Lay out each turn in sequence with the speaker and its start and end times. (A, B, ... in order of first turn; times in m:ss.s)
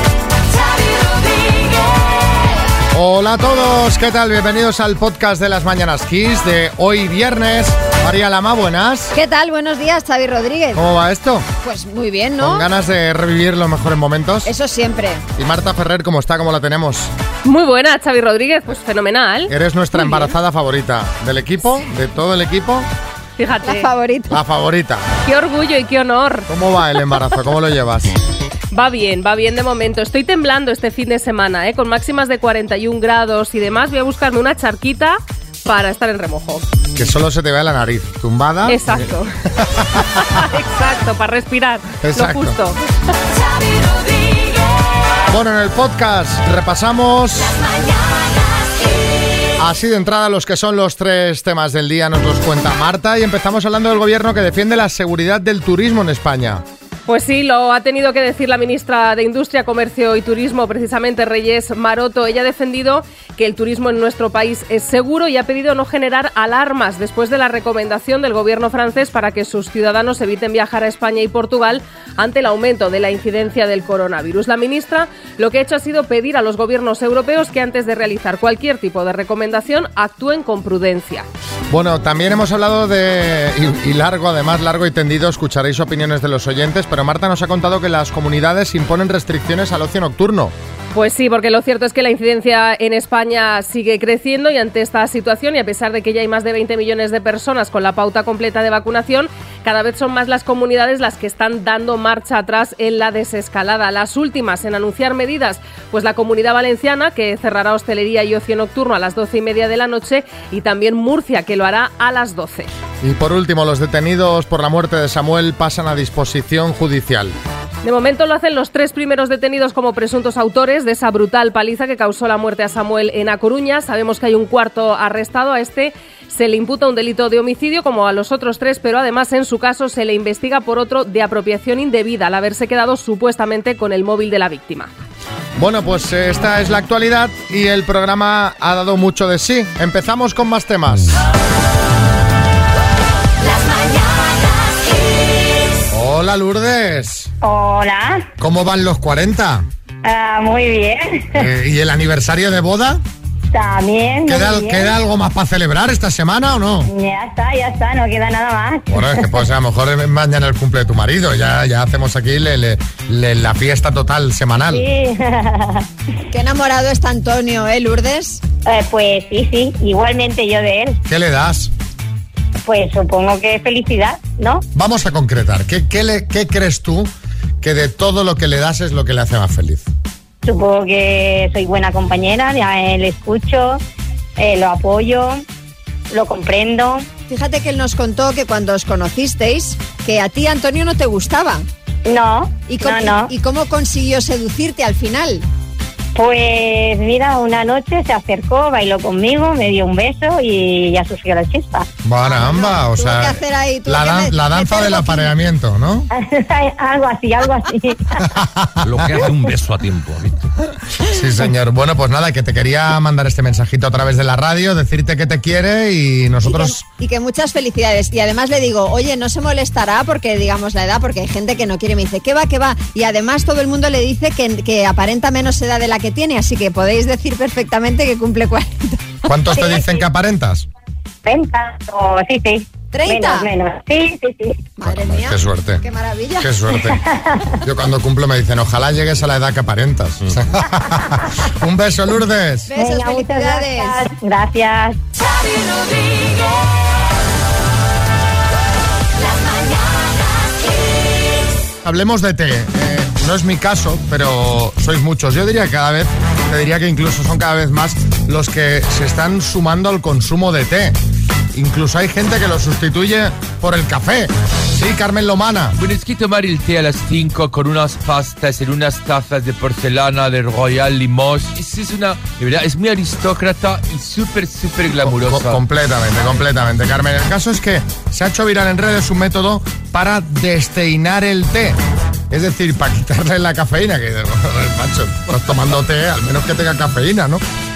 0:02.9-0:09.1 A
0:09.1-0:10.8 B
0:10.7-0:11.5 A
0:11.6-0:12.6 B
0:12.4-0:14.5 A
0:14.4-0:15.2 B
0:15.4-0:17.1 A
0:17.4-0:20.3 C
0:19.5-0:22.9 A
0:23.4-0:23.9 C
0:23.6-0:24.4 B
0:24.3-0:25.0 A
0:25.2-0:26.5 C
0:26.5-0:28.1 A
0:28.7-0:36.6 C
0:36.9-0:40.4 A
0:38.7-0:39.3 C
0:40.1-0:42.8 C
0:42.0-0:42.6 A
0:45.3-0:47.6 A
0:49.6-0:56.6 A
0:57.1-1:21.3 C
1:21.7-1:30.5 A
1:30.9-1:52.7 C
1:53.0-1:57.4 A
1:57.8-2:14.9 C
2:15.6-2:21.2 A
2:25.9-2:27.3 A
2:27.4-2:28.2 D
2:28.4-2:29.6 A
2:30.0-2:31.4 D
2:31.3-2:33.0 A
2:33.5-2:35.0 D
2:34.2-2:36.9 A
2:36.9-2:39.4 D
2:38.9-2:44.9 A
2:44.7-2:45.8 D
2:46.3-2:48.4 B
2:48.6-2:51.0 D
2:51.0-2:51.7 A
2:52.6-2:54.6 D
2:54.7-2:57.1 A
2:57.6-2:59.8 A
3:00.4-3:03.8 D
3:04.4-3:05.4 D
3:06.1-3:07.0 D
3:07.3-3:11.7 B
3:12.0-3:13.3 D
3:12.7-3:15.4 B
3:16.1-3:21.8 D
3:22.0-3:26.1 A
3:22.2-3:25.3 B
3:26.1-3:28.2 D
3:28.3-3:29.3 A
3:28.9-3:30.3 E
3:31.0-3:36.8 A
3:36.4-3:49.4 B
3:49.2-3:50.7 A
3:49.5-3:49.9 D
3:51.2-3:54.7 D
3:52.9-3:53.5 B
3:54.8-3:56.5 B
3:54.8-3:55.8 A
3:56.4-3:57.0 A
3:56.8-3:57.6 D
3:57.6-4:02.7 A
4:02.7-4:04.1 B
4:02.7-4:05.0 D
4:11.8-4:21.0 A
4:21.5-4:25.8 A
4:25.8-4:35.6 E
4:35.0-4:41.8 A
4:42.3-4:47.4 A